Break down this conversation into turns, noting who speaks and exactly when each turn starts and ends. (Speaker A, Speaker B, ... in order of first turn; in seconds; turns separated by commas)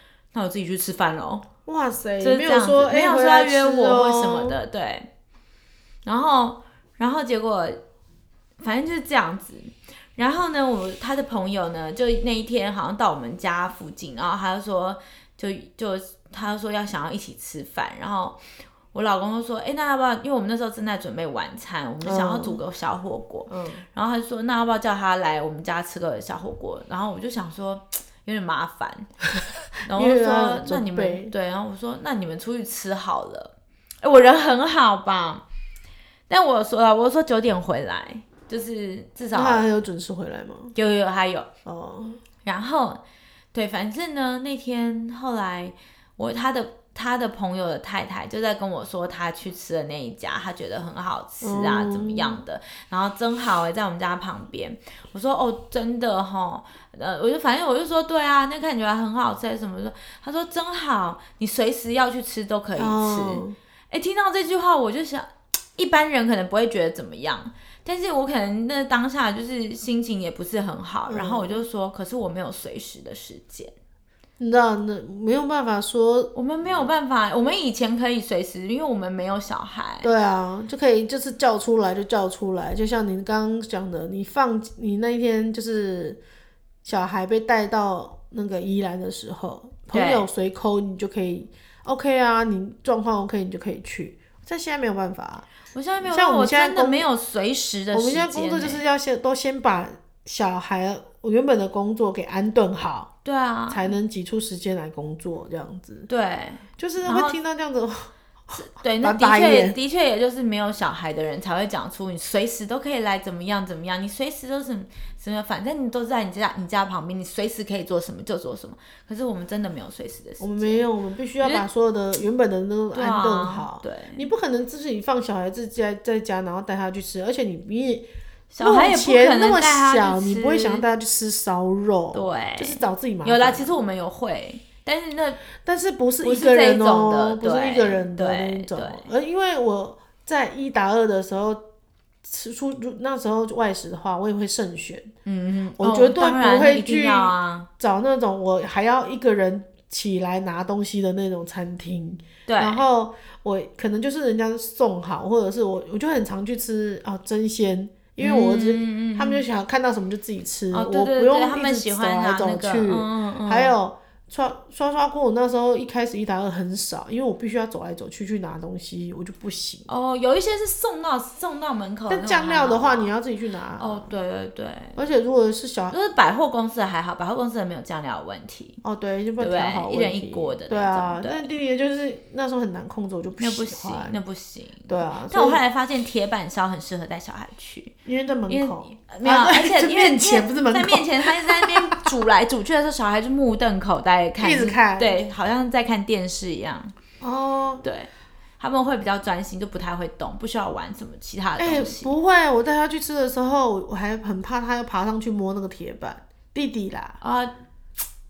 Speaker A: 0.3-1.5, Speaker B: 1.7-4.6, Speaker A: 2.2-5.1, Speaker A: 6.1-7.8, Speaker A: 8.6-18.4, Speaker A: 18.9-29.1, Speaker B: 22.0-22.6, Speaker B: 23.5-23.9, Speaker A: 29.8-35.4, Speaker B: 29.9-31.3, Speaker A: 36.3-39.7, Speaker B: 39.3-40.7, Speaker A: 40.8-41.5, Speaker B: 41.7-42.2, Speaker A: 42.4-43.0, Speaker A: 43.5-73.7, Speaker B: 51.4-52.4, Speaker B: 62.8-63.6, Speaker B: 71.1-71.7, Speaker B: 74.4-76.3, Speaker A: 76.3-80.1, Speaker B: 80.0-86.2, Speaker B: 86.8-95.5, Speaker A: 89.9-90.3, Speaker A: 95.7-98.8, Speaker B: 96.1-97.1, Speaker B: 97.9-103.1, Speaker A: 103.2-103.9, Speaker B: 103.7-106.1, Speaker A: 106.1-107.4, Speaker B: 106.8-109.8, Speaker A: 108.5-120.8, Speaker B: 120.4-128.1, Speaker A: 122.9-124.2, Speaker A: 128.5-130.8, Speaker B: 128.6-133.7, Speaker A: 132.1-135.4, Speaker B: 135.6-141.7, Speaker A: 136.2-139.1, Speaker B: 142.2-145.1, Speaker A: 145.2-147.7, Speaker B: 145.8-169.9, Speaker A: 152.5-152.8, Speaker A: 158.2-159.4, Speaker A: 160.7-163.7, Speaker A: 169.9-173.1, Speaker B: 172.1-174.1, Speaker A: 173.8-175.0, Speaker B: 175.0-176.0, Speaker A: 175.9-178.8, Speaker B: 178.8-184.2, Speaker A: 179.4-181.5, Speaker A: 183.4-188.0, Speaker B: 184.9-185.6, Speaker B: 188.1-192.0, Speaker A: 188.5-196.9, Speaker B: 194.4-195.2, Speaker B: 197.2-197.8, Speaker A: 197.8-202.2, Speaker B: 201.6-207.2, Speaker A: 207.2-207.5